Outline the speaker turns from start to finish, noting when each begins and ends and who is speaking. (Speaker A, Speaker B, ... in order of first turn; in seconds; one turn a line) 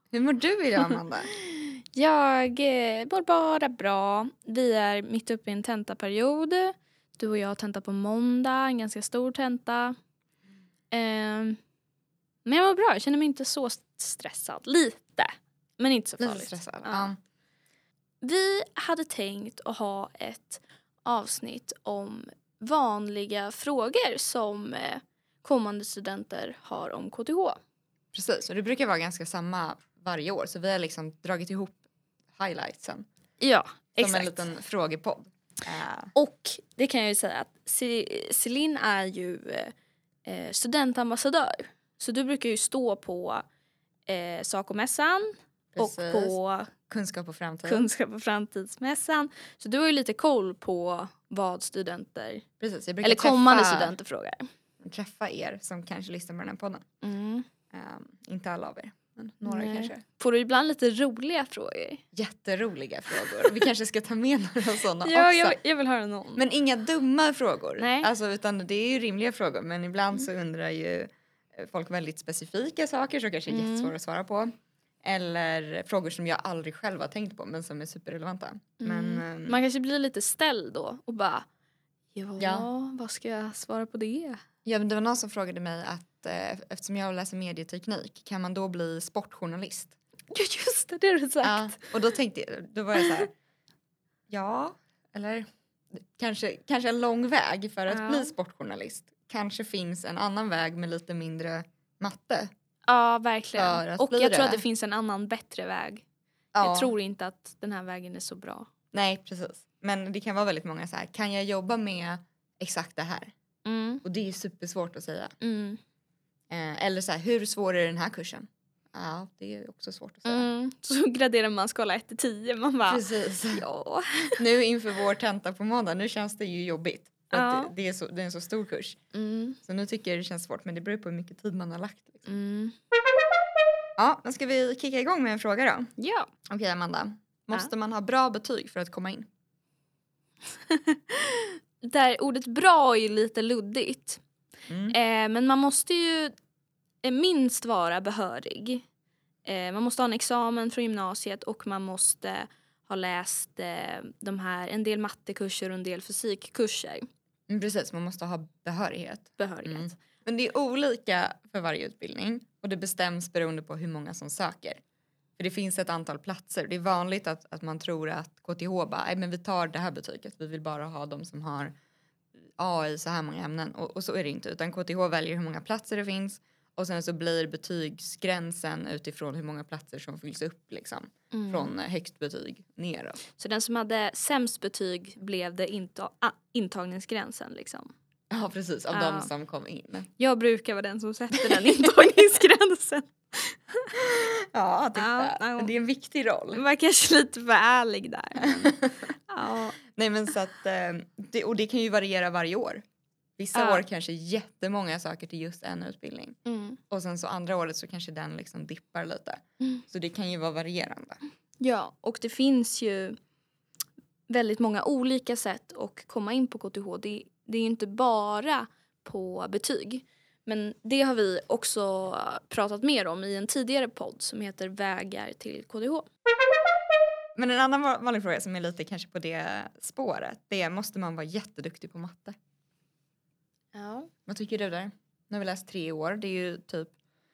Speaker A: 0.1-1.3
Speaker B: 1.5-9.9
Speaker B: 10.9-11.6
Speaker B: 12.4-17.1
Speaker A: 16.2-17.2
Speaker B: 18.2-27.6
Speaker A: 28.1-31.8
Speaker A: 32.3-33.0
Speaker B: 33.4-34.5
Speaker A: 34.0-36.1
Speaker B: 36.1-39.7
Speaker B: 40.2-43.4
Speaker B: 44.1-46.7
Speaker A: 45.7-46.3
Speaker A: 46.9-47.9
Speaker B: 47.6-52.4
Speaker A: 52.6-53.9
Speaker B: 53.0-54.4
Speaker A: 54.8-56.8
Speaker B: 57.0-57.5
Speaker A: 57.7-60.0
Speaker B: 59.4-62.0
Speaker A: 62.1-65.6
Speaker B: 65.0-66.4
Speaker A: 66.3-79.6
Speaker B: 67.8-68.1
Speaker B: 73.5-73.9
Speaker B: 78.8-81.4
Speaker B: 82.1-84.4
Speaker A: 82.4-82.7
Speaker A: 84.6-90.0
Speaker B: 90.3-91.8
Speaker A: 91.4-93.3
Speaker A: 94.3-102.5
Speaker B: 97.9-98.3
Speaker B: 102.9-106.0
Speaker A: 103.5-104.6
Speaker A: 106.5-106.9
Speaker B: 106.6-108.7
Speaker A: 108.9-113.3
Speaker B: 113.6-114.0
Speaker A: 114.0-115.3
Speaker B: 115.4-115.8
Speaker A: 116.5-120.5
Speaker B: 120.2-124.4
Speaker A: 122.8-123.6
Speaker A: 124.4-129.0
Speaker B: 127.3-127.7
Speaker B: 129.1-129.6
Speaker A: 129.6-132.3
Speaker B: 132.2-132.7
Speaker A: 134.0-135.9
Speaker B: 136.0-136.3
Speaker A: 136.5-139.3
Speaker B: 140.7-144.2
Speaker A: 144.7-145.0
Speaker B: 144.9-146.3
Speaker B: 147.0-148.8
Speaker B: 149.4-157.1
Speaker A: 157.5-164.8
Speaker B: 159.4-159.9
Speaker A: 165.4-171.7
Speaker A: 172.6-183.2
Speaker B: 181.3-181.7
Speaker B: 183.3-187.9
Speaker A: 188.3-190.1
Speaker B: 188.9-189.3
Speaker B: 190.2-193.9
Speaker A: 191.6-191.9
Speaker A: 194.0-196.6
Speaker B: 194.9-195.7
Speaker B: 196.5-198.7
Speaker A: 198.4-198.9
Speaker B: 199.3-199.8
Speaker A: 199.8-202.8
Speaker A: 203.4-206.3
Speaker B: 203.5-203.8
Speaker B: 206.4-206.8
Speaker A: 206.9-211.2
Speaker B: 211.6-213.2
Speaker B: 214.3-226.1
Speaker A: 227.3-232.3
Speaker B: 233.7-234.1
Speaker A: 234.3-236.9